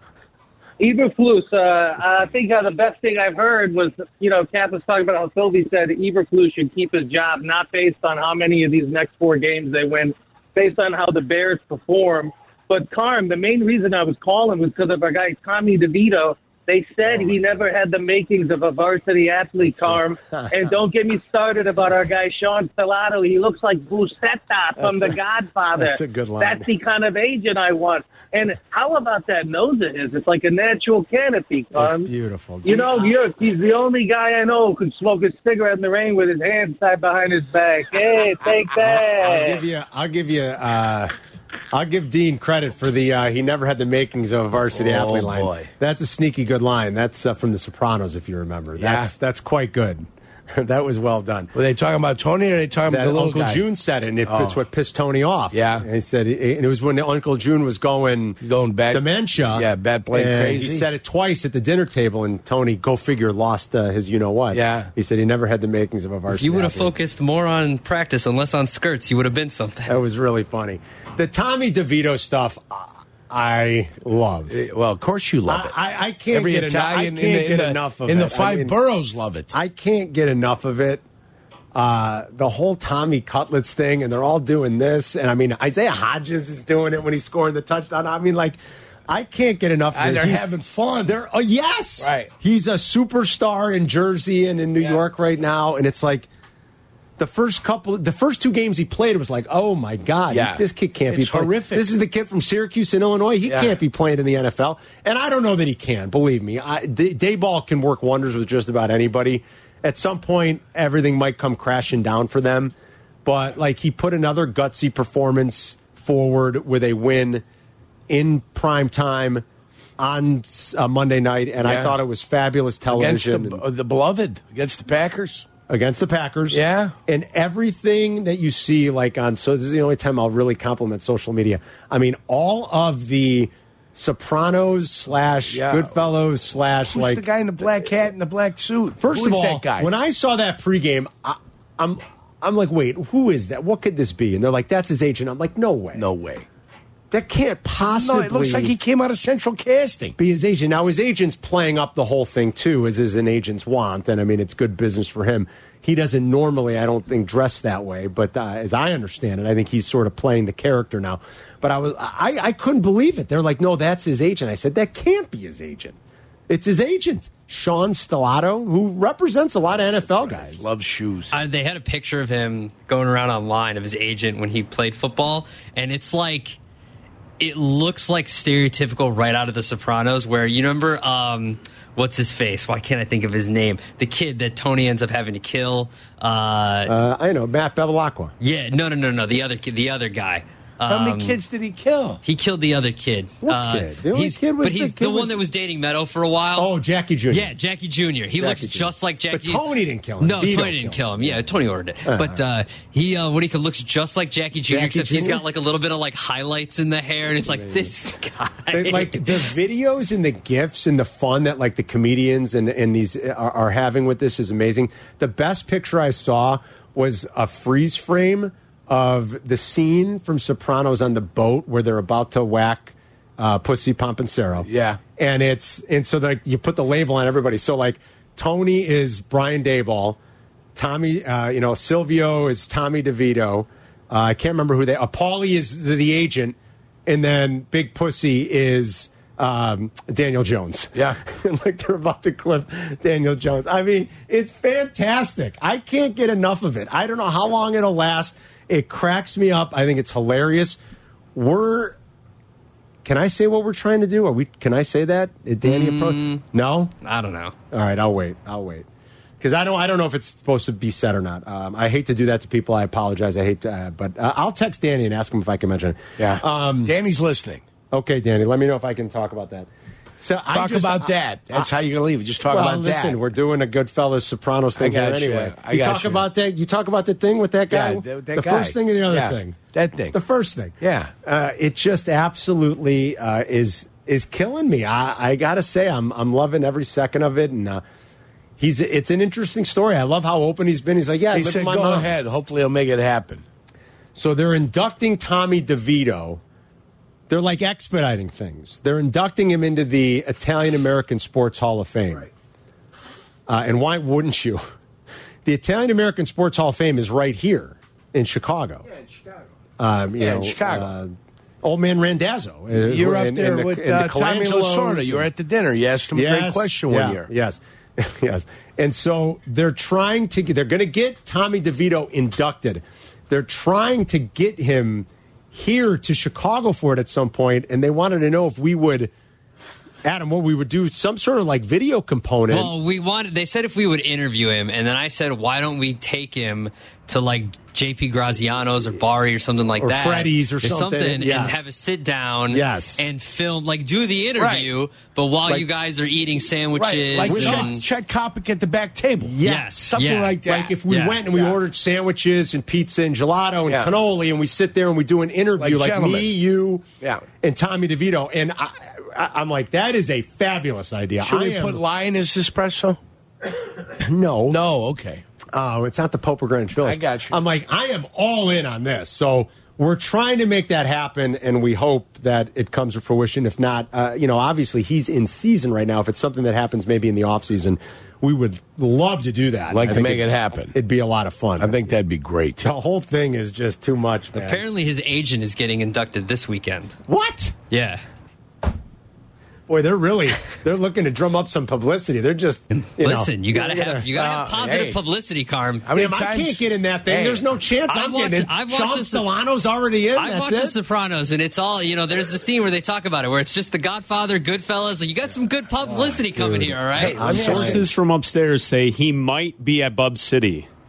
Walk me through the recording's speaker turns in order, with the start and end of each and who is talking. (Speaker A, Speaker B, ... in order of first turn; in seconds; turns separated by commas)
Speaker A: 0.8-32.1, Speaker B: 17.0-17.6, Speaker B: 19.7-20.6, Speaker B: 24.8-25.1, Speaker B: 25.8-26.7, Speaker B: 31.7-33.2, Speaker A: 32.6-39.6, Speaker B: 38.9-41.1, Speaker B: 41.7-51.5, Speaker C: 44.7-45.7, Speaker C: 48.8-49.1, Speaker C: 51.5-53.6, Speaker B: 52.9-66.9, Speaker C: 54.2-54.6, Speaker C: 55.5-55.9, Speaker C: 58.4-60.9, Speaker C: 64.5-64.9, Speaker D: 66.3-69.9, Speaker B: 69.8-74.5, Speaker C: 74.5-75.7, Speaker B: 75.5-78.7, Speaker C: 76.3-79.5, Speaker B: 79.5-81.0, Speaker B: 81.7-90.4, Speaker C: 89.9-91.2, Speaker B: 91.0-96.3, Speaker C: 92.0-92.3, Speaker B: 97.2-117.4, Speaker C: 100.3-101.9, Speaker C: 103.5-103.8, Speaker B: 118.1-119.4, Speaker B: 120.0-123.6, Speaker C: 121.6-121.9, Speaker C: 122.9-125.5, Speaker B: 125.7-137.2, Speaker C: 126.5-126.9, Speaker C: 135.5-136.0, Speaker C: 136.8-139.9, Speaker B: 139.0-146.0, Speaker C: 145.9-146.4, Speaker B: 147.1-148.7, Speaker C: 147.9-150.2, Speaker B: 150.2-166.0, Speaker B: 166.5-170.7, Speaker C: 169.7-171.4, Speaker D: 171.3-176.6, Speaker D: 177.4-186.9, Speaker B: 186.8-188.3, Speaker D: 188.4-191.4, Speaker C: 190.9-192.2, Speaker D: 192.2-196.7, Speaker B: 193.4-195.4, Speaker B: 196.6-197.5, Speaker D: 197.3-199.6, Speaker B: 198.4-201.4, Speaker D: 200.2-209.5, Speaker B: 202.0-202.4, Speaker B: 204.7-205.4, Speaker B: 207.5-207.9, Speaker B: 208.7-230.2, Speaker C: 224.7-225.0, Speaker B: 230.7-250.8, Speaker B: 251.3-252.0, Speaker B: 253.0-256.9, Speaker D: 255.6-256.4, Speaker D: 257.0-257.5, Speaker B: 257.7-258.9, Speaker B: 259.4-266.9, Speaker C: 266.2-267.6, Speaker B: 267.9-271.7, Speaker C: 270.5-273.2, Speaker B: 272.5-279.6, Speaker C: 274.8-276.2, Speaker C: 277.7-280.2, Speaker B: 280.1-287.8, Speaker C: 280.8-281.1, Speaker B: 288.6-292.1, Speaker C: 291.3-293.4, Speaker B: 294.1-296.4, Speaker B: 297.3-302.3, Speaker B: 303.5-304.6, Speaker B: 305.4-308.9, Speaker C: 308.9-309.4, Speaker B: 309.8-315.3, Speaker C: 310.2-310.9, Speaker C: 312.7-317.3, Speaker B: 316.1-329.1, Speaker B: 330.0-332.7, Speaker D: 332.5-347.8, Speaker B: 339.8-341.6, Speaker B: 342.5-343.1, Speaker C: 344.4-344.7, Speaker C: 346.8-350.8, Speaker B: 347.2-347.8, Speaker B: 349.2-356.9, Speaker D: 349.4-351.2, Speaker C: 351.3-351.6, Speaker C: 353.7-353.9, Speaker C: 355.6-356.3, Speaker B: 357.4-361.8, Speaker C: 361.2-363.0, Speaker B: 364.0-364.6, Speaker C: 364.5-365.2, Speaker B: 365.5-381.9, Speaker C: 366.8-367.4, Speaker C: 379.7-380.7, Speaker C: 381.6-382.7, Speaker B: 382.6-384.6, Speaker D: 384.3-386.9, Speaker B: 387.1-387.6, Speaker D: 387.7-388.0, Speaker B: 389.7-394.1, Speaker D: 393.0-395.9, Speaker C: 394.2-395.0, Speaker C: 395.8-397.4, Speaker B: 395.9-400.8, Speaker D: 397.9-399.3, Speaker D: 400.1-407.2, Speaker B: 405.8-407.9, Speaker C: 407.0-407.9, Speaker E: 407.2-410.7